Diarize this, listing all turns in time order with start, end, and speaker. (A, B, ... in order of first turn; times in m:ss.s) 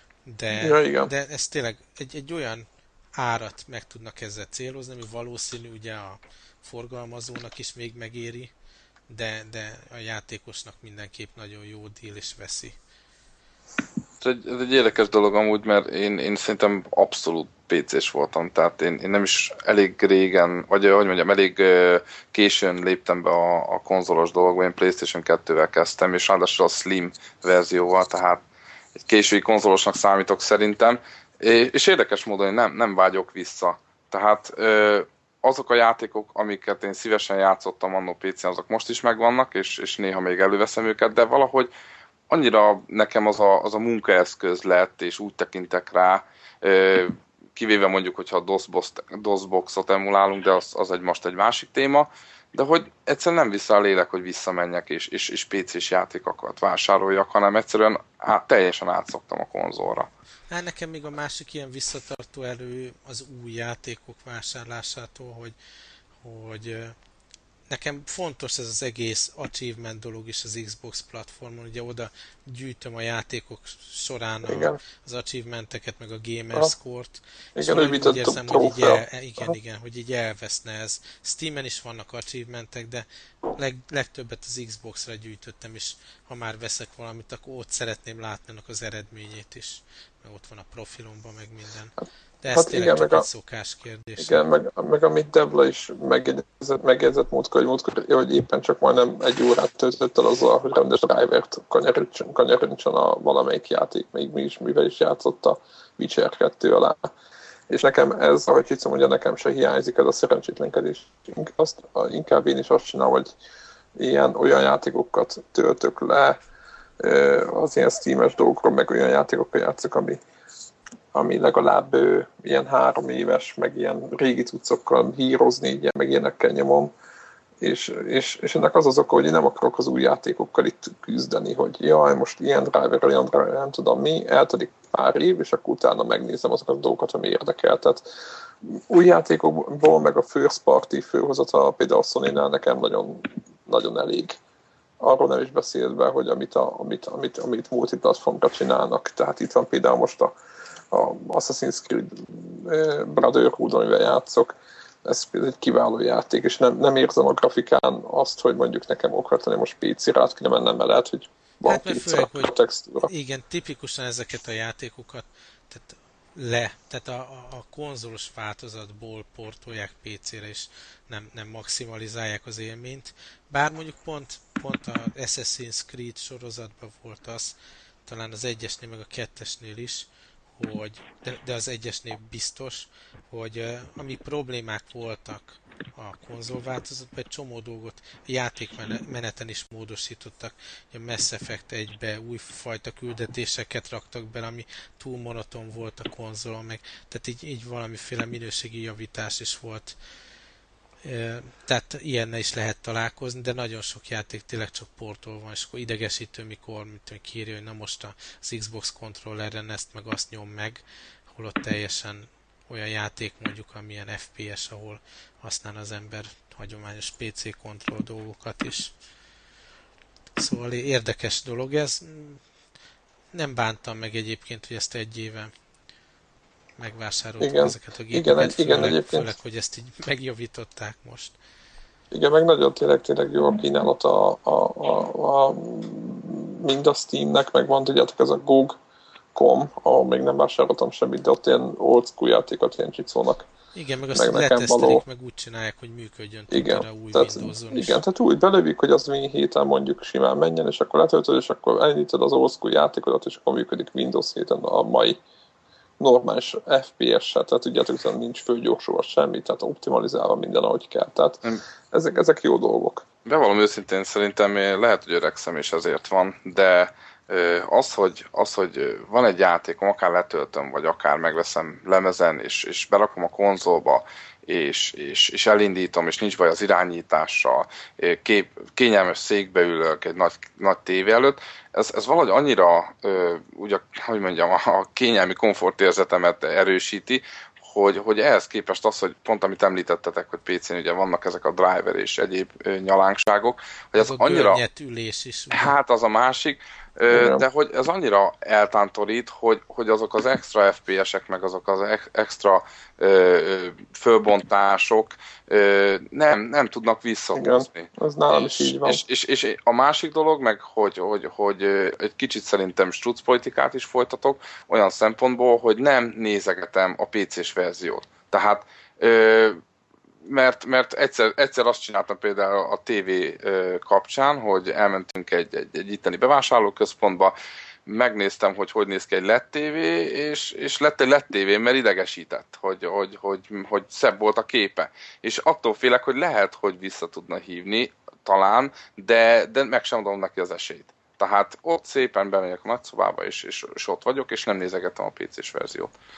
0:00.2-0:08.5 A
0:00.6-0:01.1 B
0:09.1-0:12.8 A
0:14.2-0:28.4 C
0:29.0-0:41.7 C
0:42.3-1:00.1 C
1:00.5-1:05.5 A
1:06.2-1:07.0 A
1:07.7-1:34.4 A
1:14.5-1:14.8 B
1:17.6-1:19.5 B
1:32.5-1:33.2 B
1:34.2-1:47.1 B
1:47.7-1:53.3 B
1:54.0-1:56.4 B
1:57.0-2:00.2 B
2:01.1-2:06.9 B
2:07.6-2:18.0 B
2:18.6-2:24.4 B
2:25.0-2:30.3 B
2:30.9-2:34.5 B
2:35.0-2:43.1 B
2:41.6-2:42.5 A
2:43.0-3:20.0 A
3:21.0-3:30.8 A
3:31.3-3:38.9 A
3:40.4-3:42.4 A
3:43.3-3:45.5 A
3:46.8-3:51.3 A
3:47.4-3:49.3 B
3:52.1-3:58.8 B
3:59.3-4:03.5 B
4:03.7-4:08.0 A
4:04.1-4:05.0 B
4:06.5-4:15.2 B
4:16.0-4:23.0 B
4:23.2-4:54.6 C
4:54.0-4:55.7 A
4:55.5-5:19.6 C
4:57.1-4:57.4 B
5:07.3-5:09.0 B
5:20.2-5:27.3 C
5:27.8-5:45.9 C